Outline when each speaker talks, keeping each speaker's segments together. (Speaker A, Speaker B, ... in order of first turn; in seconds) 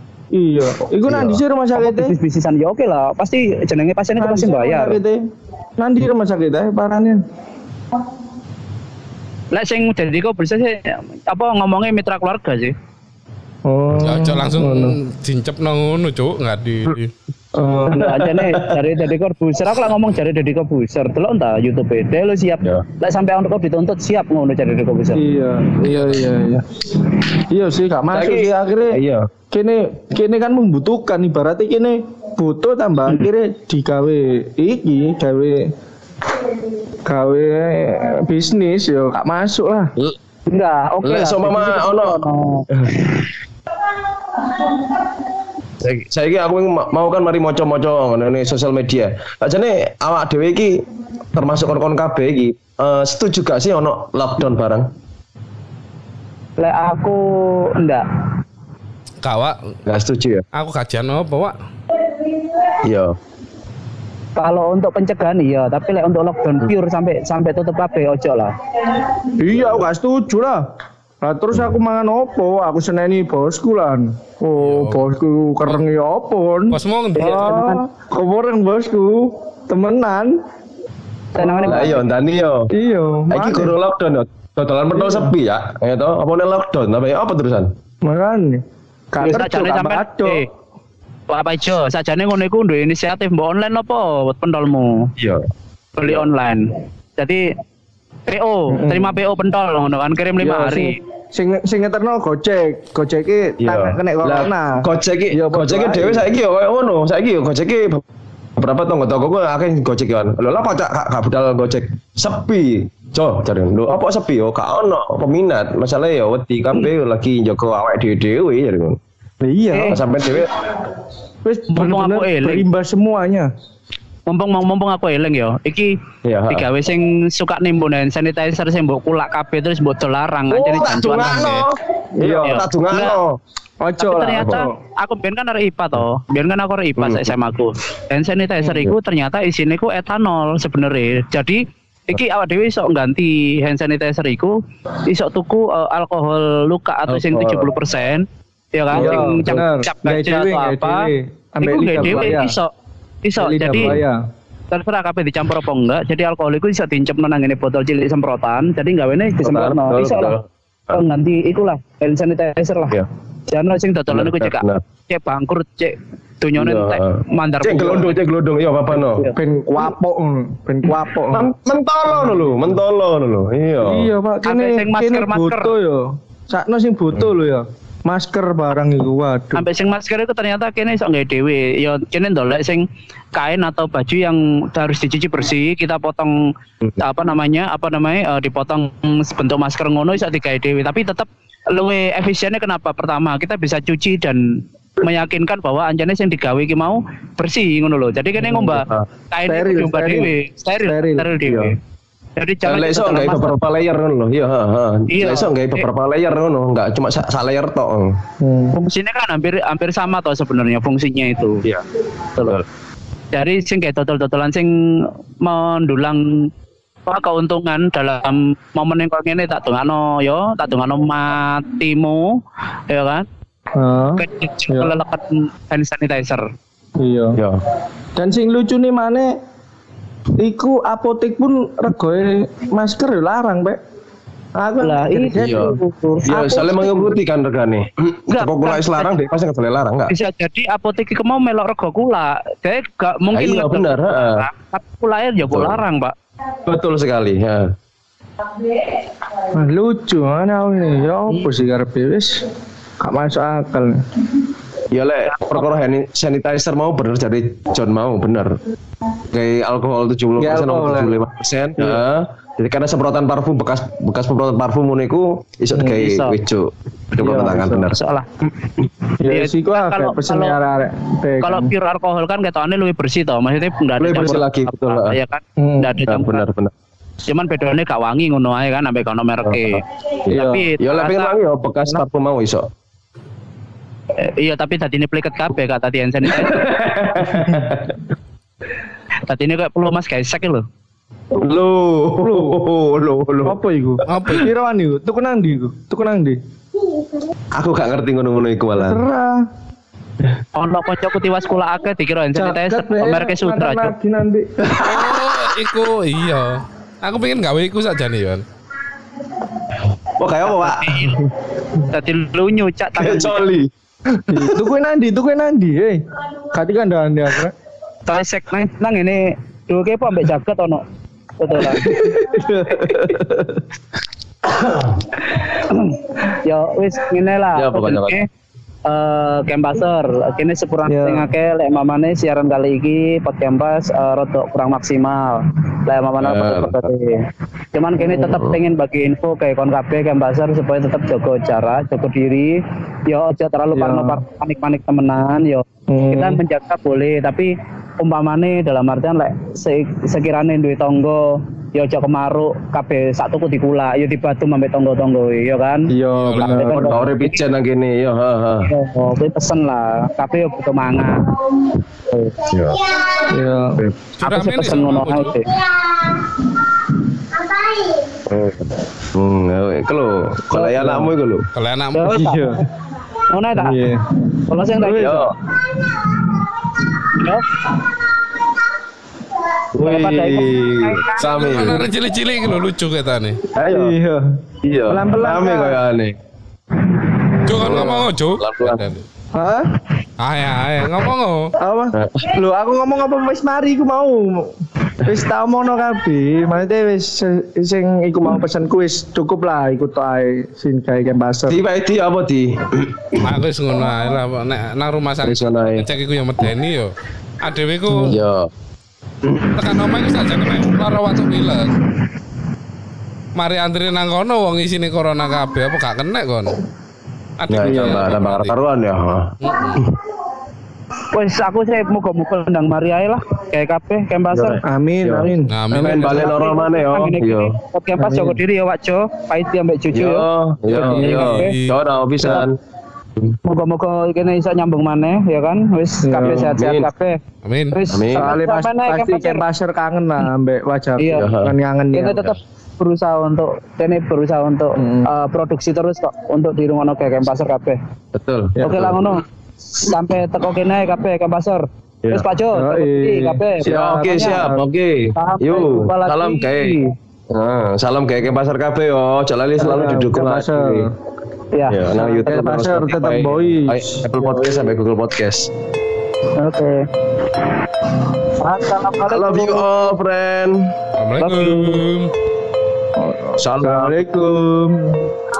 Speaker A: 0.3-2.1, 4.2-5.2, 5.8-7.2, 13.7-15.0, 17.5-18.1, 25.1-29.0, 29.5-35.7, 37.0-39.9, 69.4-70.6, 71.2-80.3, 81.4-82.0, 82.7-83.7, 84.9-85.3, 88.0-90.4, 98.7-99.2, 100.4-106.3, 119.4-120.0, 121.4-123.5, 132.2-132.6, 133.8-134.8, 148.9-152.6, 153.4-154.2, 169.2-171.5, 172.1-172.8, 173.8-179.6, 198.4-198.8, 199.4-200.3, 200.8-201.3, 208.4-208.8, 223.8-225.0, 227.0-227.4, 228.2-229.3, 230.4-233.8, 234.6-237.2, 249.5-252.4, 253.0-254.0, 260.4-261.1, 267.2-267.9, 269.2-271.7, 275.6-276.0, 280.3-280.6, 292.2-292.6, 293.4-296.4, 298.8-299.4, 302.3-304.5, 314.3-316.0, 316.5-317.5, 321.8-323.3, 330.9-331.3, 343.7-344.2, 345.9-346.4, 355.9-357.0, 363.3-363.8, 370.5-371.1, 372.0-372.6, 373.6-374.2, 374.8-375.2, 383.6-385.8, 389.3-389.7, 391.6-401.6, 417.6-418.1, 424.6-425.6, 428.0-428.4, 431.0-431.3, 436.0-436.6, 438.1-442.2, 444.8-445.1, 448.6-448.9, 452.5-454.6, 459.6-460.9, 461.9-464.4, 473.0-475.1
Speaker B: 1.1-1.4, 17.9-18.8, 28.1-29.3, 41.0-42.2, 42.8-43.1, 45.8-50.8, 51.3-54.9, 59.9-60.4, 62.8-63.1, 69.5-69.9, 81.6-82.7, 83.3-87.7, 95.2-95.5, 103.6-108.0, 108.6-119.0, 119.9-120.5, 126.2-126.7, 130.5-133.4, 134.3-134.7, 137.0-137.3, 147.1-147.7, 148.9-149.6, 151.9-152.2, 159.4-160.9, 164.1-164.8, 166.6-169.2, 171.3-174.1, 198.7-199.1, 201.4-201.7, 202.6-208.2, 212.4-212.6, 227.3-227.6, 235.3-235.7, 236.3-240.1, 243.3-244.5, 245.5-245.8, 246.7-247.7, 254.9-258.6, 259.3-268.0, 274.0-275.2, 276.0-276.7, 279.4-282.6, 286.3-288.0, 291.4-293.6, 297.5-299.0, 304.6-305.2, 310.2-311.2, 312.9-314.5, 321.8-322.1, 322.7-323.6, 324.4-325.0, 327.5-328.1, 336.2-336.8, 338.1-338.6, 356.6-358.7, 362.4-362.9, 368.3-371.5, 374.8-375.3, 379.7-381.8, 383.5-383.9, 384.6-386.2, 387.5-388.8, 391.9-392.4, 401.5-403.2, 405.2-405.9, 407.9-408.5, 409.2-409.6, 417.5-420.0, 424.3-427.5, 429.9-432.6, 436.2-436.9, 437.9-438.4, 441.1-441.5, 448.1-449.1, 453.6-456.8, 457.3-460.9, 461.7-465.5, 469.0-470.7, 473.4-474.1
Speaker C: 1.8-5.0, 9.5-12.7, 17.9-25.2, 40.5-42.7, 56.6-58.0, 64.3-68.5, 77.2-77.8, 81.3-82.0, 89.2-90.5, 91.3-95.1, 96.0-96.7, 97.2-97.4, 98.3-101.0, 119.7-120.0, 121.7-122.6, 124.3-125.9, 126.5-131.6, 132.4-133.2, 134.0-144.5, 145.1-151.1, 151.6-152.7, 153.2-154.0, 154.7-160.3, 160.9-162.9, 163.5-168.1, 174.4-175.7, 179.5-186.3, 187.0-194.4, 195.0-201.7, 202.4-203.6, 205.1-205.9, 208.7-211.6, 213.3-216.5, 217.1-222.3, 222.9-223.2, 224.2-226.4, 234.8-236.7, 238.3-239.1, 240.1-246.1, 255.3-255.7, 265.8-266.3, 267.8-268.2, 269.3-270.6, 271.4-276.4, 277.3-281.3, 284.2-286.6, 289.2-290.6, 300.5-303.9, 310.4-311.2, 311.8-313.4, 318.1-320.8, 321.4-322.0, 325.3-328.2, 328.9-337.2, 337.7-357.4, 358.7-361.4, 364.2-365.5, 371.9-372.4, 373.3-373.7, 374.5-375.3, 377.1-377.5, 379.8-381.8, 421.1-424.6, 425.9-431.6, 432.2-432.5, 433.4-437.2, 437.7-439.4, 441.0-441.3, 441.9-447.8, 448.6-449.2, 449.8-454.4, 455.1-456.9, 461.5-462.7, 466.4-466.8, 468.4-469.6, 471.2-471.8
Speaker D: 14.0-17.1, 25.8-26.2, 59.2-59.5, 60.5-61.5, 74.6-75.0, 76.7-77.6, 294.1-294.5, 304.8-308.4, 356.1-356.6, 364.2-365.3, 371.5-372.1, 381.2-383.4, 387.4-389.0, 390.2-391.5, 403.2-406.9, 407.4-408.2, 409.5-411.8, 413.4-416.6, 417.4-418.5, 419.4-419.9, 425.5-426.3, 430.7-431.8, 437.4-437.8, 471.0-472.1